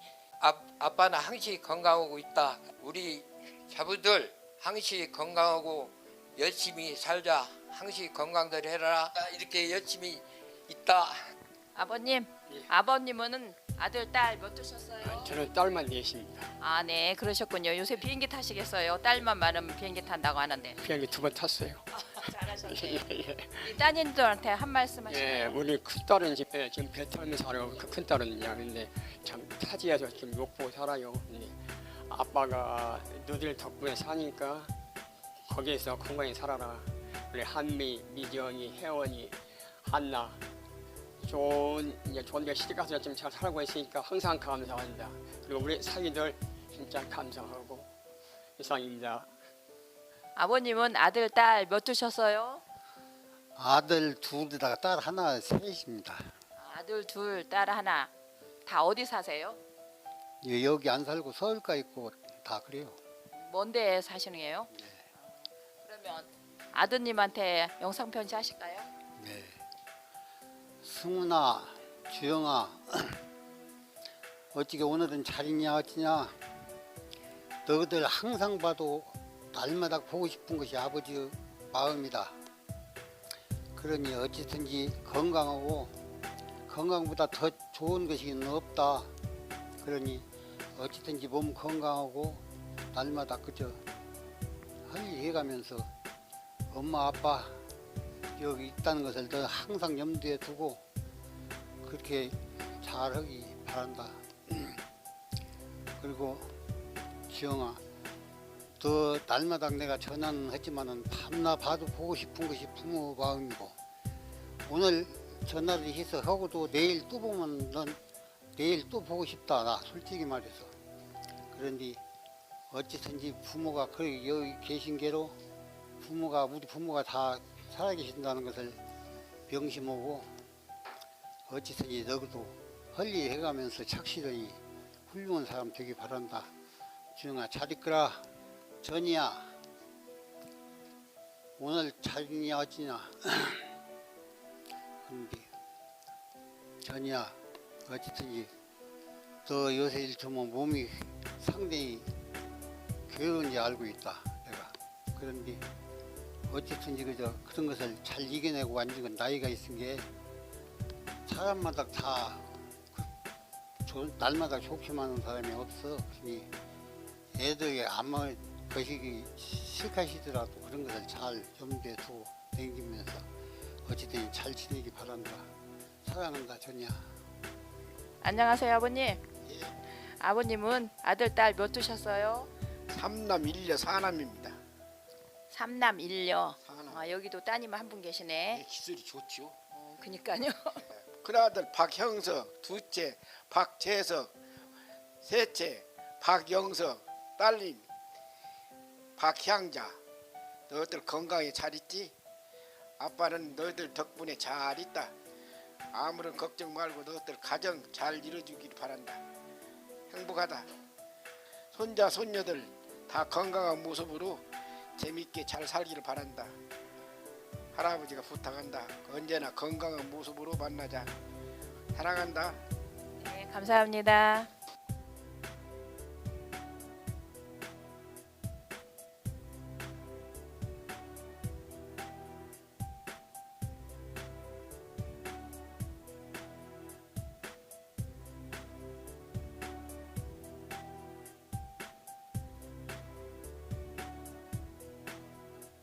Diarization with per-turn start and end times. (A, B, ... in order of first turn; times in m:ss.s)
0:00.4-0:11.2 A
0:11.7-0:15.3 B
0:15.0-0:16.5 C
0:16.6-0:20.8 B
0:20.8-0:21.9 C
0:21.9-0:25.6 B
0:22.6-0:23.6 C
0:25.1-0:34.7 C
0:35.5-0:40.4 C
0:41.2-0:47.9 C
0:48.6-0:49.4 C
0:50.3-0:52.6 B
0:53.6-0:56.3 D
0:56.6-0:58.1 B
0:58.6-0:59.6 B
1:00.4-1:03.0 D
1:03.3-1:08.9 B
1:04.7-1:05.0 D
1:09.2-1:09.6 D
1:10.8-1:13.2 D
1:14.5-1:16.4 D
1:17.6-1:22.3 D
1:23.8-1:26.0 D
1:26.7-1:29.1 D
1:29.8-1:33.8 D
1:34.8-1:35.9 D
1:36.7-1:37.6 D
1:38.4-1:40.8 D
1:41.8-1:44.8 D
1:46.0-1:46.5 D
1:47.3-1:47.8 D
1:48.8-1:53.8 D
1:54.6-1:58.0 D
1:58.6-2:00.7 D
2:01.5-2:02.0 D
2:02.7-2:05.4 D
2:06.0-2:08.8 D
2:09.5-2:10.3 D
2:11.5-2:16.5 D
2:17.1-2:18.2 D
2:18.8-2:19.5 D
2:21.6-2:23.6 D
2:25.0-2:25.5 D
2:26.8-2:28.5 D
2:29.4-2:32.1 D
2:33.1-2:35.6 D
2:36.5-2:40.1 D
2:41.2-2:43.1 D
2:43.8-2:46.5 D
2:47.3-2:53.3 D
2:53.8-2:55.5 D
2:56.0-2:57.1 D
2:58.2-2:59.2 B
2:59.5-2:59.7 E
3:00.2-3:02.5 B
3:02.9-3:04.6 E
3:05.5-3:08.6 B
3:06.6-3:07.1 E
3:08.5-3:09.6 E
3:09.7-3:10.8 B
3:11.0-3:14.3 E
3:15.2-3:17.8 E
3:19.2-3:20.0 E
3:20.7-3:22.1 E
3:23.0-3:25.1 E
3:25.9-3:29.2 E
3:30.1-3:30.7 E
3:31.7-3:34.4 E
3:35.0-3:36.5 E
3:37.7-3:41.1 E
3:41.9-3:42.6 E
3:43.2-3:44.5 B